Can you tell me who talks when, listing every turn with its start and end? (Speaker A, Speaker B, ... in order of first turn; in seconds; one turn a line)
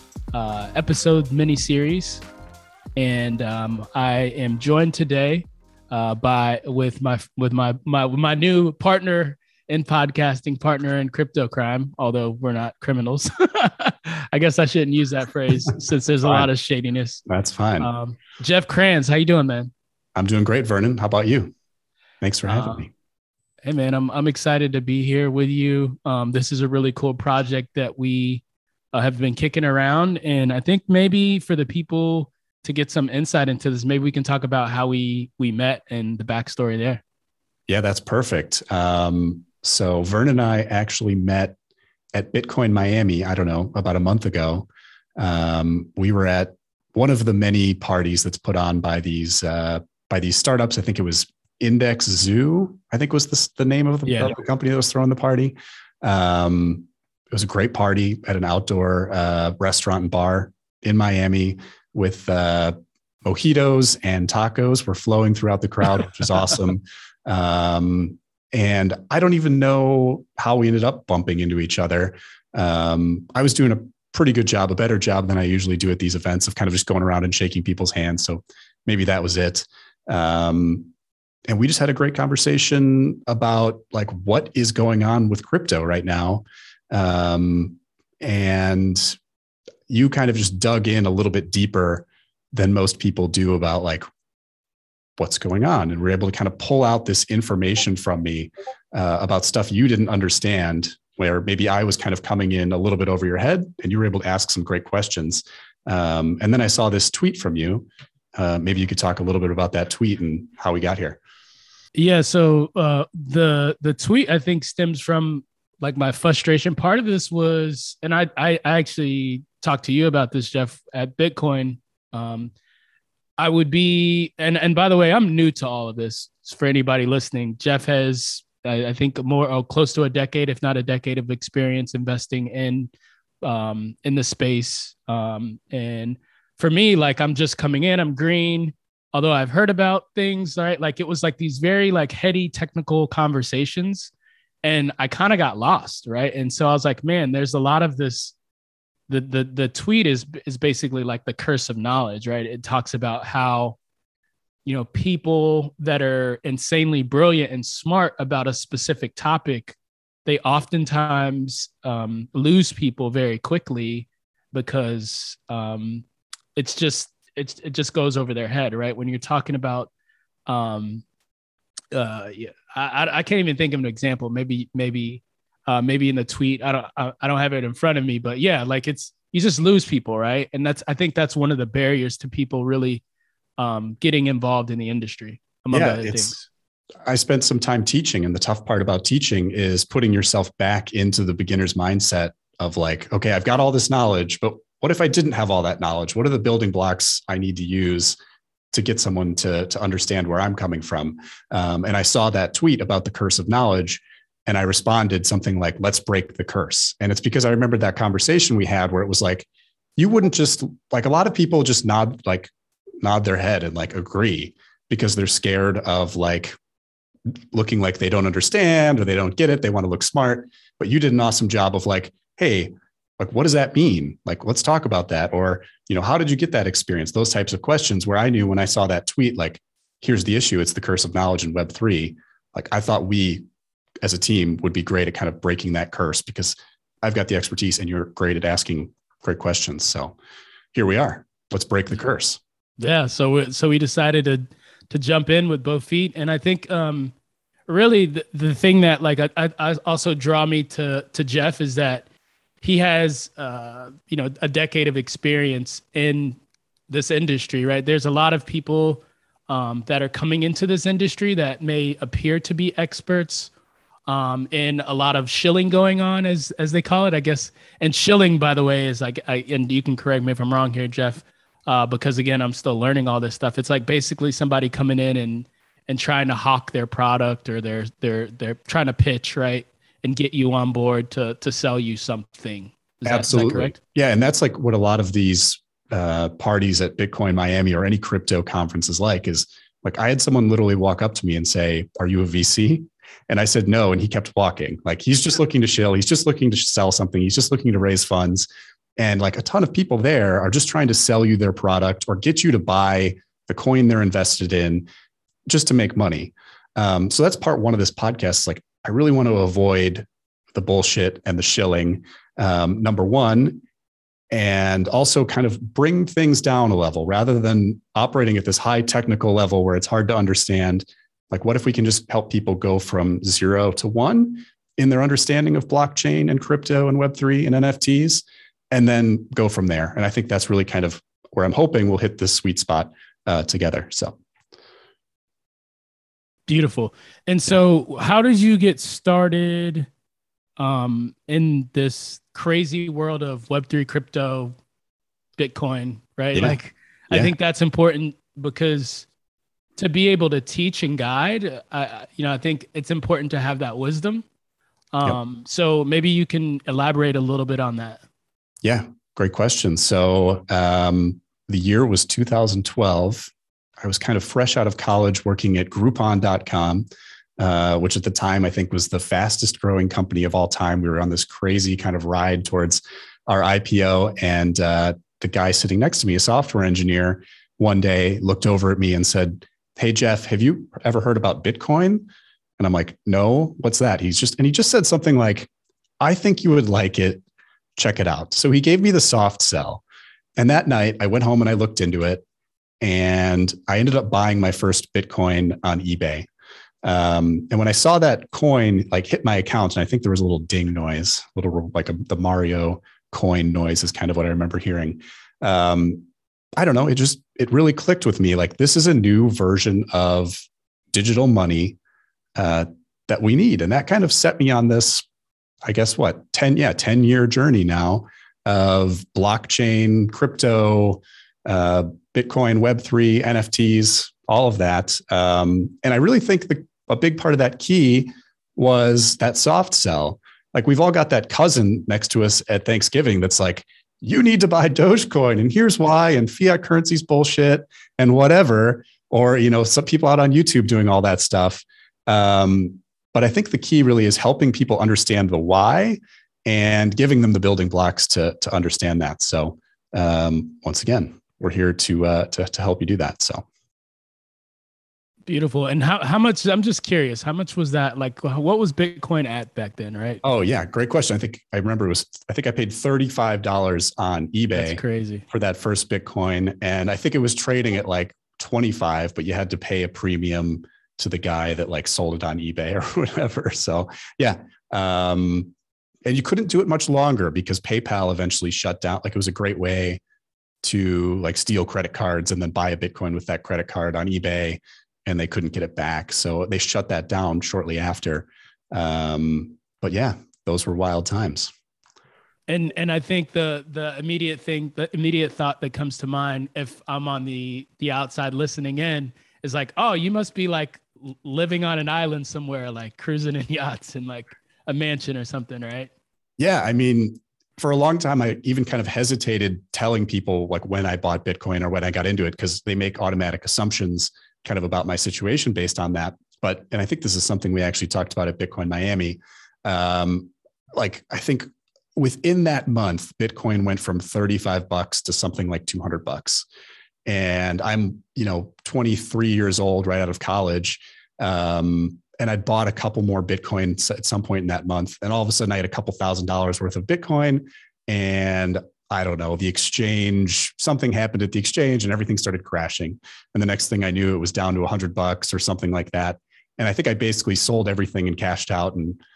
Speaker A: 0.3-2.2
Speaker A: 3.0-17.2
Speaker B: 17.3-17.9
Speaker A: 17.8-19.7
Speaker B: 20.2-21.5
Speaker B: 22.2-22.9
Speaker A: 22.5-22.9
Speaker A: 23.6-37.0
Speaker B: 37.7-41.5
Speaker B: 42.1-80.9
Speaker A: 54.1-54.3
Speaker B: 81.5-89.2
Speaker B: 89.9-94.0
Speaker B: 95.2-111.2
Speaker A: 112.0-122.5
Speaker A: 123.4-132.9
Speaker A: 133.4-144.1
Speaker A: 144.6-148.3
Speaker A: 149.1-153.8
Speaker A: 154.7-166.1
Speaker A: 166.6-169.9
Speaker A: 170.5-171.0
Speaker A: 171.9-183.0
Speaker A: 183.6-186.5
Speaker B: 185.7-186.4
Speaker B: 187.1-198.2
Speaker B: 198.7-216.6
Speaker B: 217.5-233.4
Speaker B: 234.0-240.2
Speaker B: 240.7-242.4
Speaker A: 242.8-247.1
Speaker A: 247.7-252.1
Speaker A: 252.6-263.5
Speaker A: 264.1-283.8
Speaker B: 283.1-298.5
Speaker B: 299.0-304.9
Speaker B: 305.5-313.6
Speaker B: 314.3-334.2
Speaker A: 336.5-339.9
Speaker A: 340.6-344.6
Speaker A: 345.4-349.1
Speaker A: 349.8-354.2
Speaker A: 354.9-358.0
Speaker B: 358.6-363.3
Speaker B: 363.8-366.9
Speaker B: 367.4-385.5
Speaker B: 386.0-387.2
Speaker B: 387.8-389.8
Speaker B: 390.4-392.2
Speaker B: 392.8-396.3
Speaker B: 396.8-406.1
Speaker B: 406.6-411.8
Speaker B: 412.4-415.1
Speaker B: 415.6-453.4
Speaker A: 455.3-460.2
Speaker B: 460.2-464.8
Speaker A: 464.6-465.2
Speaker B: 465.3-475.5
Speaker B: 476.1-480.0
Speaker B: 480.6-491.5
Speaker A: 492.5-505.9
Speaker B: 506.4-526.5
Speaker B: 527.1-549.0